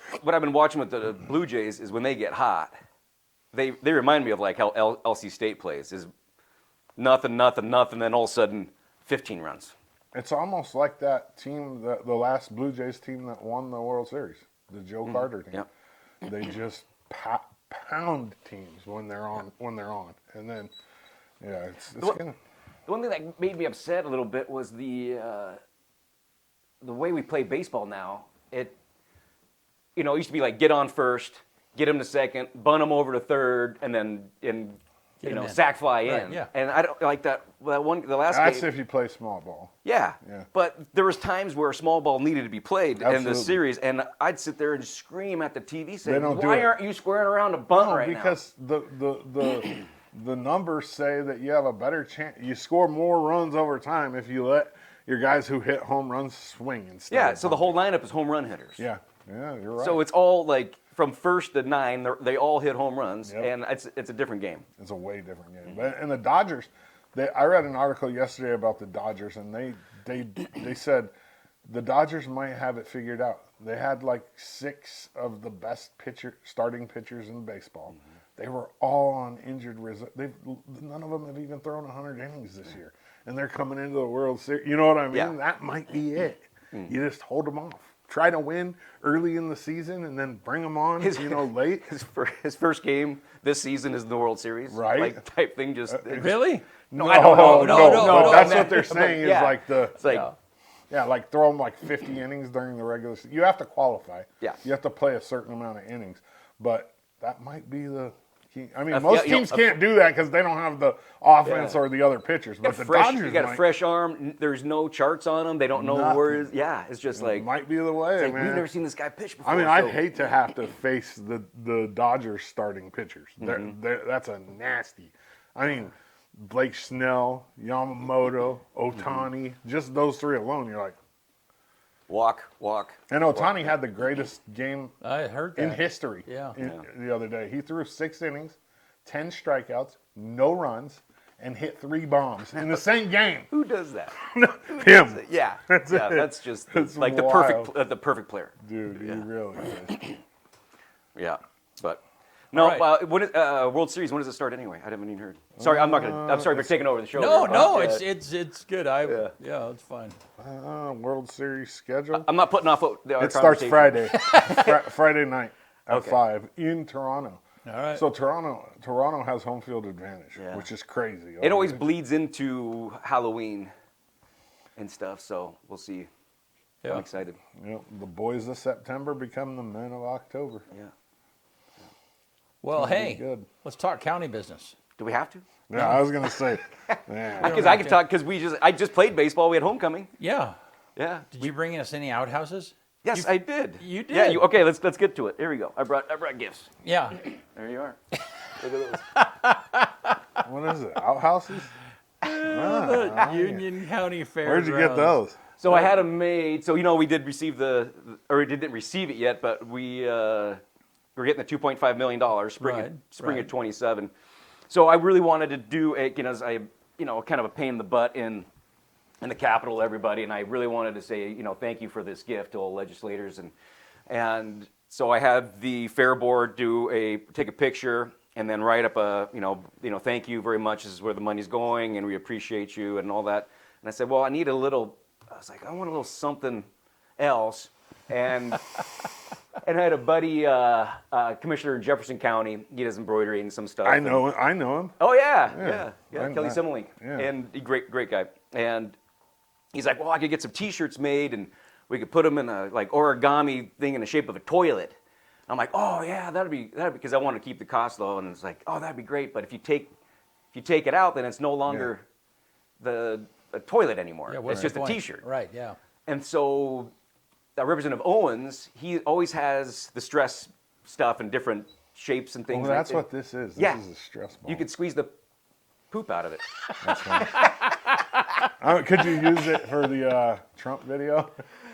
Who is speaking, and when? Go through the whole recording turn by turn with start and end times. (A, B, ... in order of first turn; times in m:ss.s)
0:00.2-0:02.8 A
0:03.5-0:06.1 A
0:07.0-0:09.7 A
0:10.1-0:15.7 B
0:15.0-0:15.7 A
0:16.2-0:20.7 B
0:21.4-0:22.4 B
0:22.9-0:25.6 A
0:26.8-0:28.8 A
0:30.0-0:38.7 A
0:35.2-0:36.5 C
0:38.3-0:40.5 B
0:39.8-0:48.4 A
0:43.0-0:43.6 B
0:46.0-0:46.7 B
0:47.7-0:57.8 B
0:57.1-0:58.8 A
0:58.8-1:00.0 B
0:59.8-1:04.7 A
1:03.2-1:03.5 B
1:04.8-1:11.1 B
1:11.7-1:31.9 B
1:31.0-1:40.3 A
1:34.7-1:35.2 B
1:35.9-1:40.0 B
1:36.1-1:38.9 C
1:40.0-1:40.3 C
1:40.9-1:53.7 B
1:48.9-1:49.8 A
1:51.4-1:51.8 A
1:52.6-1:57.5 A
1:55.8-1:56.5 B
1:57.2-1:58.7 B
1:58.2-2:00.0 A
1:59.4-2:11.0 B
2:03.4-2:03.7 A
2:12.1-2:13.7 A
2:13.1-2:14.9 B
2:15.0-2:16.6 C
2:15.6-2:23.5 B
2:16.6-2:16.8 A
2:23.5-2:29.2 A
2:24.2-2:27.7 B
2:28.6-2:30.2 B
2:31.2-2:38.1 A
2:32.5-2:32.9 C
2:35.6-2:36.9 B
2:37.1-2:40.2 C
2:39.0-2:39.3 A
2:40.4-2:42.3 B
2:42.1-2:44.3 A
2:43.2-2:51.8 B
2:44.2-2:44.8 C
2:45.9-2:46.2 A
2:47.7-2:48.0 C
2:50.4-2:50.7 A
2:51.4-2:53.7 A
2:54.8-2:56.1 A
2:56.8-2:57.4 A
2:57.6-3:00.6 B
3:02.6-3:04.8 C
3:02.7-3:03.5 B
3:05.0-3:05.4 A
3:05.7-3:07.8 B
3:05.7-3:06.0 C
3:06.9-3:10.1 A
3:07.4-3:08.0 C
3:10.2-3:10.6 C
3:11.0-3:11.5 A
3:11.3-3:14.4 C
3:13.0-3:16.7 A
3:16.8-3:17.2 C
3:17.4-3:18.0 A
3:18.6-3:19.0 A
3:19.1-3:20.2 C
3:20.4-3:21.7 B
3:22.2-3:25.2 C
3:22.4-3:23.7 B
3:24.4-3:25.4 B
3:25.6-3:30.6 A
3:31.2-3:34.1 A
3:32.6-3:33.5 C
3:34.7-3:38.5 A
3:39.2-3:43.5 A
3:44.1-3:56.7 A
3:57.2-3:58.7 A
3:59.6-4:04.2 A
4:03.8-4:05.0 B
4:05.0-4:09.0 A
4:05.5-4:07.3 B
4:09.7-4:15.0 A
4:15.5-4:19.9 A
4:20.5-4:22.0 A
4:22.8-4:25.2 A
4:24.3-4:25.8 C
4:24.5-4:24.8 B
4:26.1-4:26.9 A
4:27.6-4:33.0 A
4:32.5-4:34.6 B
4:33.6-4:33.8 A
4:34.5-4:35.1 A
4:35.9-4:36.4 A
4:36.8-4:37.5 B
4:38.6-4:41.3 B